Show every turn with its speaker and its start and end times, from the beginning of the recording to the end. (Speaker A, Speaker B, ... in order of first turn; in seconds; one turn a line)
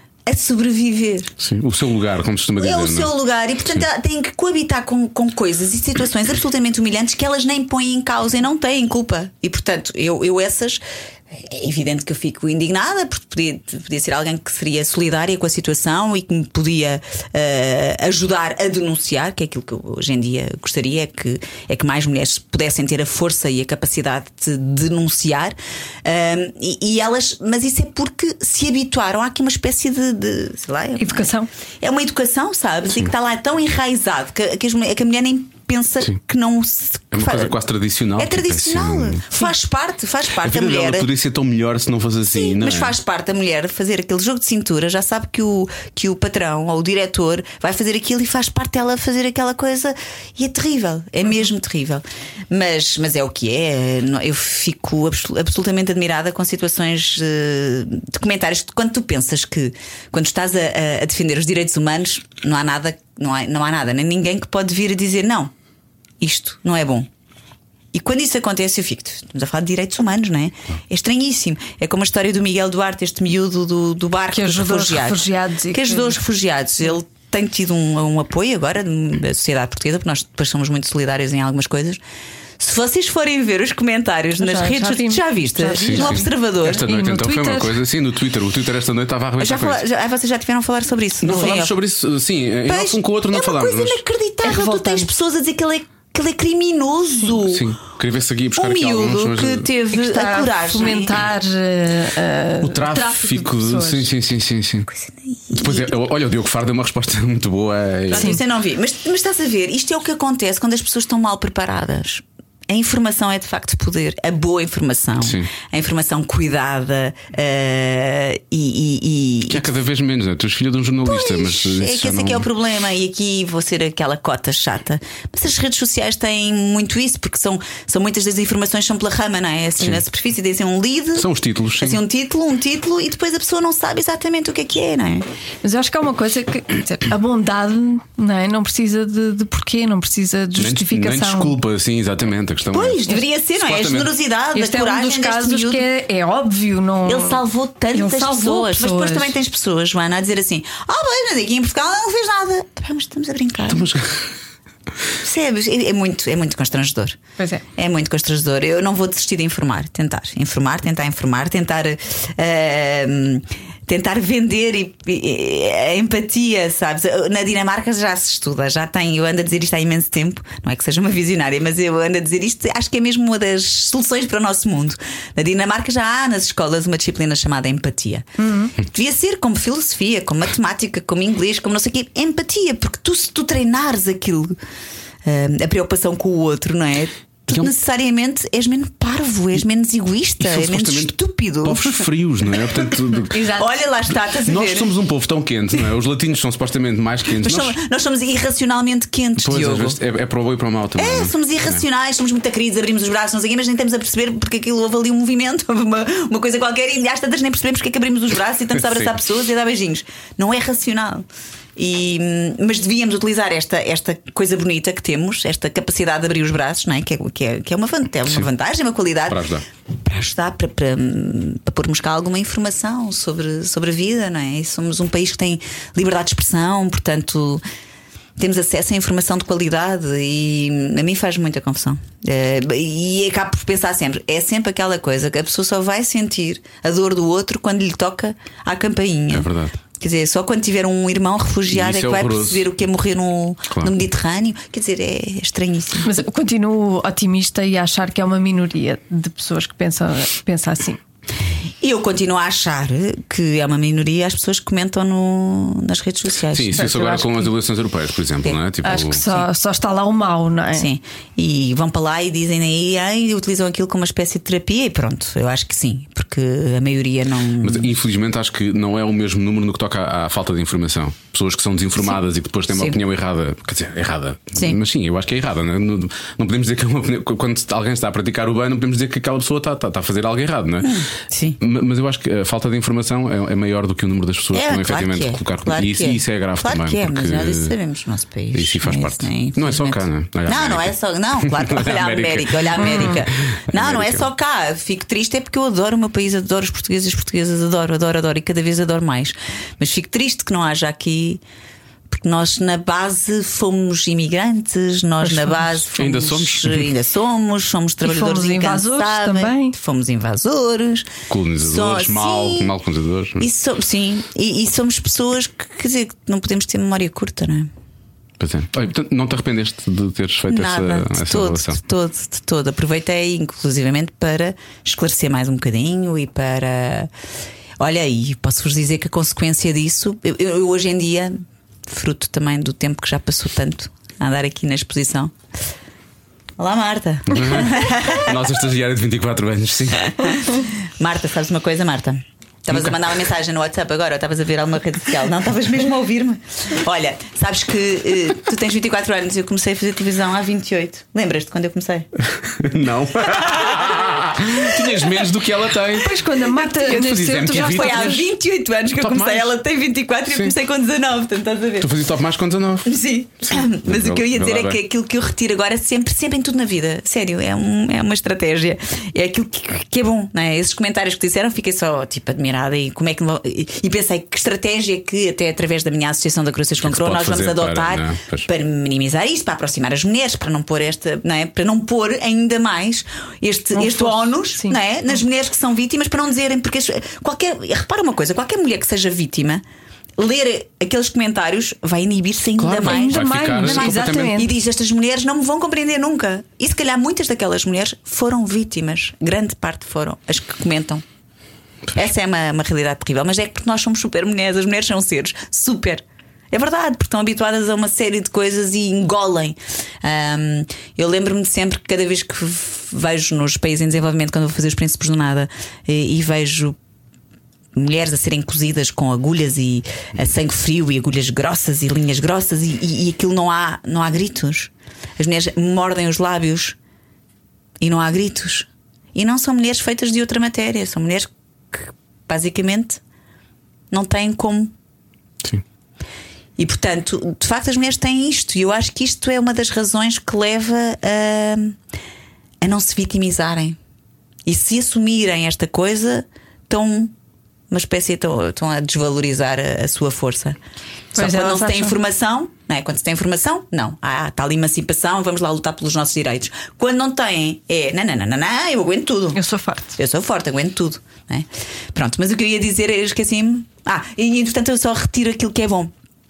Speaker A: 0.2-1.3
Speaker B: 1.4-3.1
Speaker A: 2.6-37.5
Speaker C: 31.0-31.5
Speaker B: 37.1-39.2
Speaker A: 38.2-41.1
Speaker B: 40.3-42.9
Speaker A: 42.3-65.5
Speaker A: 66.2-67.1
Speaker A: 67.9-82.0
Speaker C: 74.3-76.2
Speaker A: 82.6-86.8
Speaker C: 84.4-87.8
Speaker B: 85.8-89.8
Speaker A: 89.4-91.8
Speaker B: 91.2-94.0
Speaker A: 92.7-97.7
Speaker C: 94.4-95.1
Speaker B: 97.4-99.7
Speaker A: 98.5-101.2
Speaker C: 99.9-104.1
Speaker B: 102.6-104.9
Speaker A: 104.9-105.9
Speaker B: 105.5-108.4
Speaker A: 108.1-119.7
Speaker C: 108.1-108.4
Speaker B: 115.2-115.5
Speaker B: 119.5-122.5
Speaker A: 121.0-135.2
Speaker B: 131.2-132.0
Speaker C: 135.6-141.6
Speaker B: 140.6-143.0
Speaker A: 142.7-145.8
Speaker B: 143.6-144.1
Speaker C: 144.5-149.3
Speaker A: 147.1-153.9
Speaker B: 153.7-154.3
Speaker A: 155.2-157.2
Speaker C: 157.4-157.6
Speaker A: 157.8-184.6
Speaker C: 178.4-178.7
Speaker A: 185.2-192.1
Speaker B: 190.4-193.5
Speaker A: 193.3-194.9
Speaker B: 194.4-197.8
Speaker A: 197.4-200.0
Speaker B: 199.4-201.8
Speaker A: 201.0-219.5
Speaker B: 208.8-209.1
Speaker B: 219.3-219.6
Speaker A: 220.0-227.6
Speaker A: 228.4-239.5
Speaker B: 239.3-239.7
Speaker A: 240.0-246.1
Speaker B: 241.7-242.7
Speaker C: 246.0-251.0
Speaker A: 251.8-256.9
Speaker B: 256.5-259.3
Speaker C: 256.8-257.5
Speaker C: 258.8-260.9
Speaker A: 260.7-267.9
Speaker B: 267.6-281.0
Speaker A: 272.7-273.0
Speaker A: 280.8-281.6
Speaker B: 281.6-287.7
Speaker A: 284.5-301.4
Speaker B: 288.5-294.2
Speaker C: 292.8-293.2
Speaker A: 302.1-312.7
Speaker B: 305.9-306.9
Speaker C: 308.0-309.7
Speaker B: 311.3-313.5
Speaker A: 313.4-317.7
Speaker B: 318.4-321.8
Speaker A: 320.5-327.1
Speaker A: 327.8-335.3
Speaker A: 336.6-338.4
Speaker B: 337.3-340.3
Speaker A: 340.2-352.1
Speaker B: 342.7-343.0
Speaker B: 352.3-358.2
Speaker A: 353.2-354.5
Speaker C: 356.0-358.2
Speaker A: 357.5-361.9
Speaker B: 358.9-359.5
Speaker B: 361.8-364.8
Speaker A: 362.8-389.6
Speaker B: 376.8-378.5
Speaker C: 383.7-384.8
Speaker A: 390.2-401.0
Speaker B: 392.6-394.4
Speaker C: 392.8-394.5
Speaker A: 401.9-416.8
Speaker A: 417.7-426.8
Speaker A: 427.8-433.0
Speaker A: 433.9-434.7
Speaker A: 436.6-441.8
Speaker A: 442.6-443.8
Speaker A: 444.4-447.1
Speaker A: 447.7-450.6
Speaker A: 451.1-459.4
Speaker C: 451.1-452.0
Speaker C: 459.3-459.9
Speaker A: 459.9-465.9